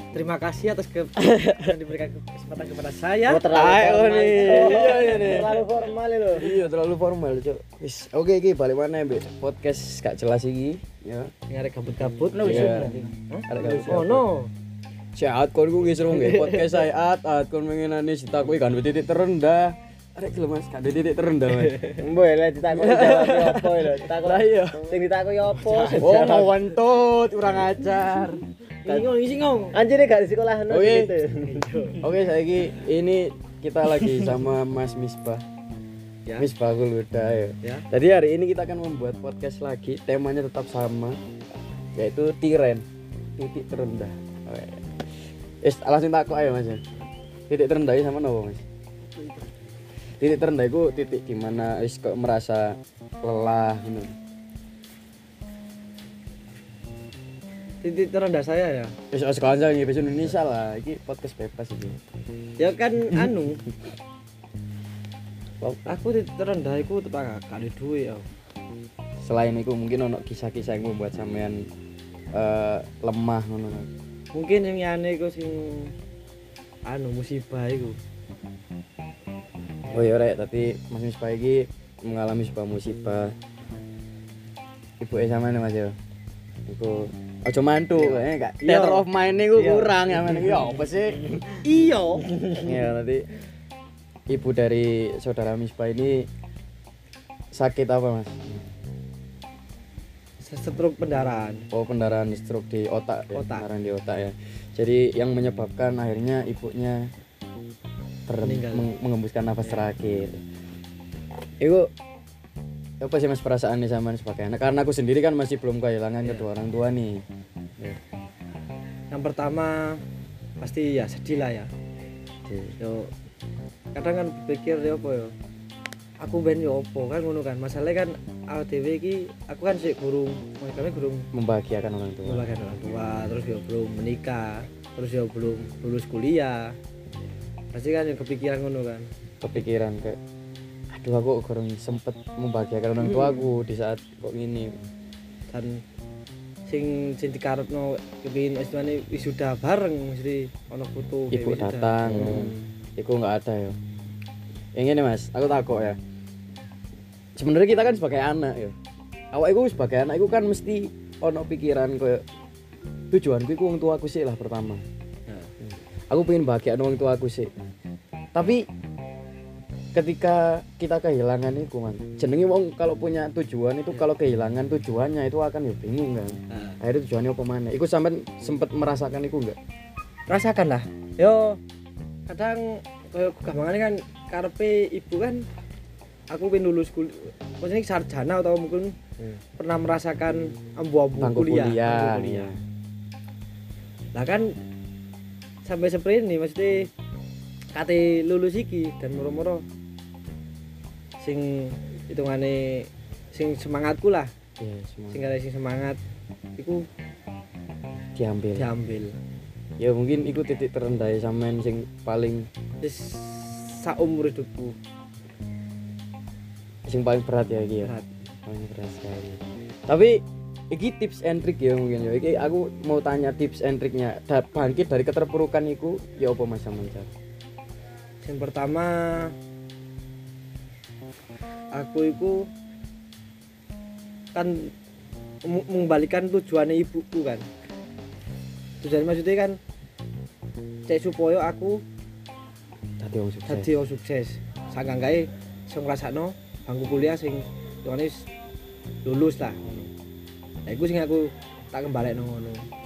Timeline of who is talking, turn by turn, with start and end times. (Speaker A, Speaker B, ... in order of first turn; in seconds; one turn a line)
Speaker A: 0.1-3.5
Speaker B: 1.2-1.7
Speaker C: 3.3-6.5
Speaker B: 3.5-5.6
Speaker A: 4.4-5.6
Speaker B: 6.3-11.3
Speaker A: 11.5-14.5
Speaker C: 12.3-13.1
Speaker B: 12.3-13.0
Speaker B: 13.5-14.2
Speaker B: 15.2-21.9
Speaker A: 16.1-16.9
Speaker A: 21.7-22.0
Speaker C: 22.0-26.6
Speaker B: 22.7-24.9
Speaker A: 25.7-26.1
Speaker B: 25.9-29.0
Speaker A: 28.9-29.8
Speaker C: 29.7-31.7
Speaker B: 30.7-31.1
Speaker A: 31.4-32.0
Speaker B: 32.0-35.4
Speaker B: 36.4-41.2
Speaker B: 42.0-42.9
Speaker B: 43.4-45.0
Speaker B: 45.6-46.8
Speaker B: 47.5-48.6
Speaker B: 50.2-54.1
Speaker A: 57.8-59.0
Speaker B: 59.1-62.0
Speaker A: 62.6-63.6
Speaker B: 65.6-65.9
Speaker A: 65.9-68.3
Speaker B: 69.2-71.7
Speaker B: 72.3-73.9
Speaker A: 74.3-75.9
Speaker A: 76.9-78.0
Speaker B: 79.9-83.3
Speaker B: 85.0-86.0
Speaker B: 86.7-91.6
Speaker A: 88.2-89.0
Speaker A: 89.6-89.9
Speaker A: 91.6-92.7
Speaker B: 92.6-93.2
Speaker B: 94.3-96.3
Speaker B: 97.5-98.7
Speaker A: 100.4-101.7
Speaker B: 101.7-107.1
Speaker A: 103.3-103.7
Speaker B: 108.3-110.4
Speaker A: 108.4-108.9
Speaker B: 111.6-111.9
Speaker B: 113.0-117.2
Speaker A: 119.1-120.0
Speaker A: 120.6-121.7
Speaker B: 122.5-122.8
Speaker A: 122.8-123.1
Speaker A: 123.9-125.3
Speaker A: 126.2-131.3
Speaker B: 131.3-132.5
Speaker A: 132.3-136.7
Speaker A: 137.7-139.1
Speaker B: 139.4-140.2
Speaker B: 140.9-144.7
Speaker A: 145.5-145.8
Speaker A: 146.7-152.7
Speaker B: 151.3-153.8
Speaker B: 154.8-156.0
Speaker B: 157.4-158.8
Speaker B: 159.3-162.2
Speaker B: 163.1-164.8
Speaker B: 166.1-167.5
Speaker B: 168.3-168.7
Speaker B: 169.9-179.6
Speaker A: 176.5-176.8
Speaker A: 180.3-181.6
Speaker A: 182.3-185.4
Speaker A: 186.3-189.0
Speaker A: 189.6-192.5
Speaker B: 191.2-192.6
Speaker A: 194.1-194.5
Speaker A: 195.6-196.9
Speaker A: 197.7-199.6
Speaker A: 201.2-204.3
Speaker B: 204.6-205.2
Speaker A: 205.1-206.0
Speaker A: 206.6-206.8
Speaker B: 208.2-208.7
Speaker A: 208.6-209.2
Speaker B: 209.8-212.5
Speaker A: 212.8-214.8
Speaker B: 216.9-217.9
Speaker A: 217.8-218.1
Speaker B: 218.5-227.1
Speaker A: 228.2-229.3
Speaker A: 231.8-232.5
Speaker A: 234.3-234.7
Speaker A: 235.5-237.4
Speaker A: 238.8-239.6
Speaker A: 240.9-241.8
Speaker B: 243.0-243.7
Speaker A: 243.5-248.3
Speaker A: 249.1-249.9
Speaker A: 250.7-252.7